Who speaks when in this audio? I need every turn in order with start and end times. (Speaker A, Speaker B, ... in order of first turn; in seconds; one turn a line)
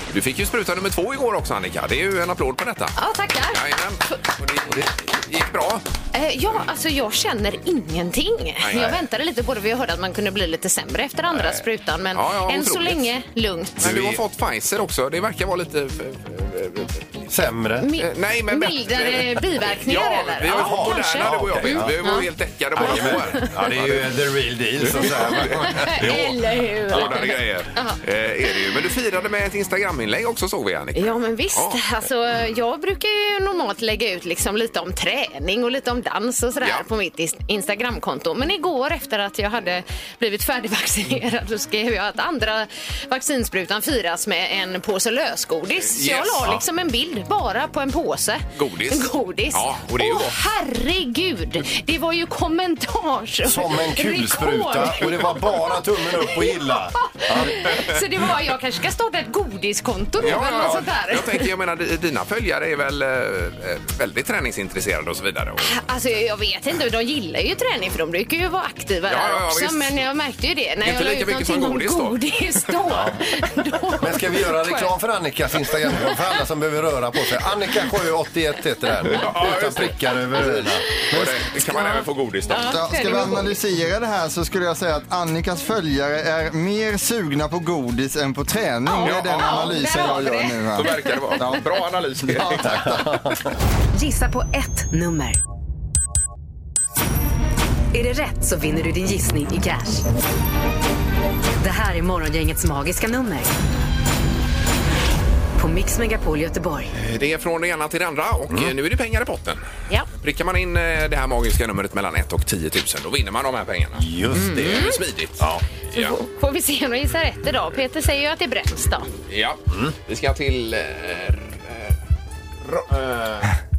Speaker A: 0.1-3.0
Speaker B: 3.0-4.1
Speaker A: 3.5-5.8
Speaker B: 6.1-13.9
Speaker A: 8.6-9.0
Speaker A: 12.1-13.1
Speaker A: 13.8-17.2
Speaker C: 13.8-14.2
Speaker C: 17.3-17.9
Speaker B: 17.8-22.3
Speaker A: 18.0-24.0
Speaker C: 20.5-22.2
Speaker C: 22.7-26.3
Speaker B: 22.8-23.5
Speaker A: 24.8-31.8
Speaker B: 25.3-28.0
Speaker B: 30.9-61.5
Speaker A: 45.8-46.5
Speaker A: 48.5-50.4
Speaker C: 53.4-57.8
Speaker A: 60.2-65.7
Speaker B: 65.6-74.9
Speaker A: 69.1-70.0
Speaker A: 70.8-72.7
Speaker C: 72.9-73.2
Speaker C: 74.0-80.9
Speaker A: 79.0-83.3
Speaker D: 81.1-81.4
Speaker B: 81.7-82.0
Speaker B: 82.5-83.6
Speaker D: 82.5-91.7
Speaker B: 88.8-91.2
Speaker A: 89.0-89.8
Speaker A: 90.7-93.0
Speaker D: 92.3-92.9
Speaker C: 92.4-93.5
Speaker E: 93.9-95.4
Speaker E: 97.9-100.0
Speaker E: 101.6-103.5
Speaker E: 105.6-106.9
Speaker A: 106.9-109.6
Speaker A: 110.2-116.2
Speaker C: 114.0-115.6
Speaker B: 114.3-115.0
Speaker B: 115.9-119.1
Speaker A: 119.2-121.9
Speaker A: 122.6-123.5